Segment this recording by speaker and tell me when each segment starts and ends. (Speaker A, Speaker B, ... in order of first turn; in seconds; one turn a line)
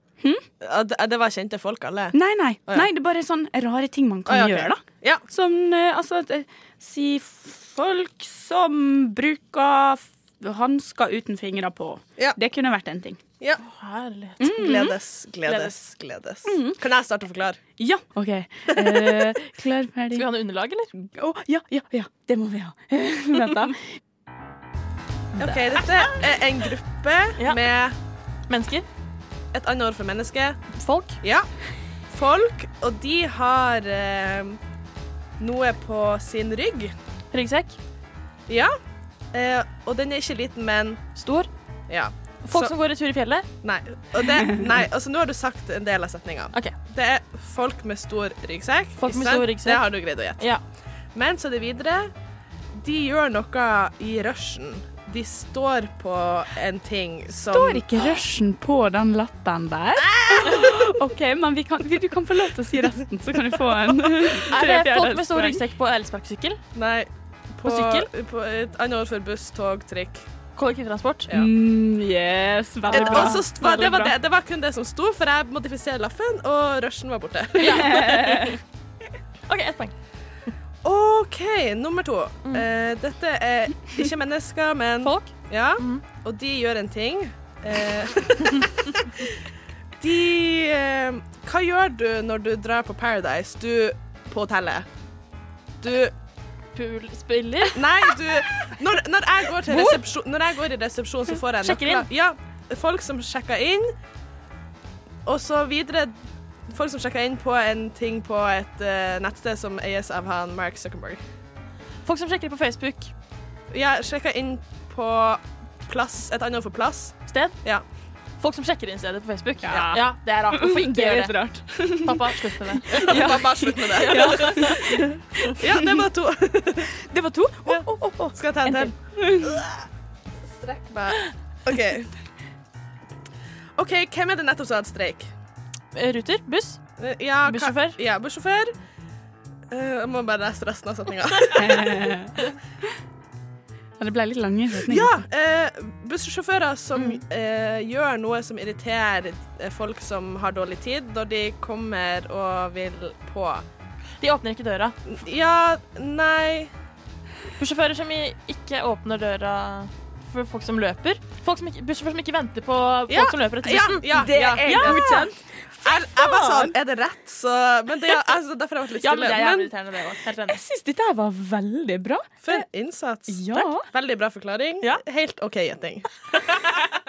Speaker A: 0.6-2.2
Speaker B: 2.1-13.2
Speaker A: 4.3-5.2
Speaker C: 13.6-14.5
Speaker B: 14.4-14.9
Speaker A: 14.5-17.6
Speaker C: 15.5-15.8
Speaker B: 16.5-16.8
Speaker B: 17.8-20.3
Speaker C: 20.1-20.9
Speaker B: 20.9-23.8
Speaker A: 25.4-28.0
Speaker C: 28.5-28.9
Speaker A: 29.5-30.6
Speaker C: 30.7-31.2
Speaker A: 31.2-31.5
Speaker A: 32.1-34.6
Speaker A: 35.4-36.9
Speaker C: 37.3-37.8
Speaker A: 38.5-38.7
Speaker A: 39.3-41.0
Speaker C: 41.2-41.5
Speaker A: 41.9-42.7
Speaker C: 42.5-43.5
Speaker A: 43.6-50.5
Speaker C: 49.0-50.6
Speaker A: 51.1-52.1
Speaker A: 52.8-58.1
Speaker B: 57.4-65.6
Speaker A: 60.0-60.8
Speaker C: 64.5-66.6
Speaker A: 66.8-70.3
Speaker C: 67.6-68.1
Speaker C: 70.6-71.3
Speaker B: 71.3-74.1
Speaker C: 72.9-73.4
Speaker A: 72.9-78.1
Speaker C: 77.6-78.6
Speaker B: 77.6-78.6
Speaker C: 79.5-79.9
Speaker A: 80.8-89.4
Speaker C: 85.0-86.0
Speaker A: 90.0-94.9
Speaker A: 95.8-96.1
Speaker C: 96.7-98.2
Speaker A: 97.7-103.9
Speaker C: 99.7-100.0
Speaker C: 101.6-102.1
Speaker A: 105.2-106.2
Speaker A: 106.7-111.2
Speaker C: 112.0-113.1
Speaker A: 113.7-117.8
Speaker C: 117.3-117.6
Speaker C: 118.4-123.4
Speaker B: 119.6-125.7
Speaker A: 123.0-126.9
Speaker C: 123.9-125.0
Speaker B: 127.0-129.6
Speaker A: 127.7-129.8
Speaker A: 130.6-132.1
Speaker A: 133.8-135.3
Speaker C: 135.9-136.8
Speaker A: 137.0-138.7
Speaker C: 137.4-138.0
Speaker A: 139.7-142.1
Speaker B: 141.6-142.4
Speaker B: 144.0-145.2
Speaker A: 144.9-153.6
Speaker C: 146.9-147.2
Speaker C: 154.2-155.0
Speaker A: 155.1-156.7
Speaker C: 157.6-165.3
Speaker A: 163.1-165.2
Speaker B: 164.1-166.7
Speaker A: 165.8-169.7
Speaker C: 169.0-170.6
Speaker B: 170.5-172.7
Speaker A: 172.4-177.0
Speaker B: 173.3-173.9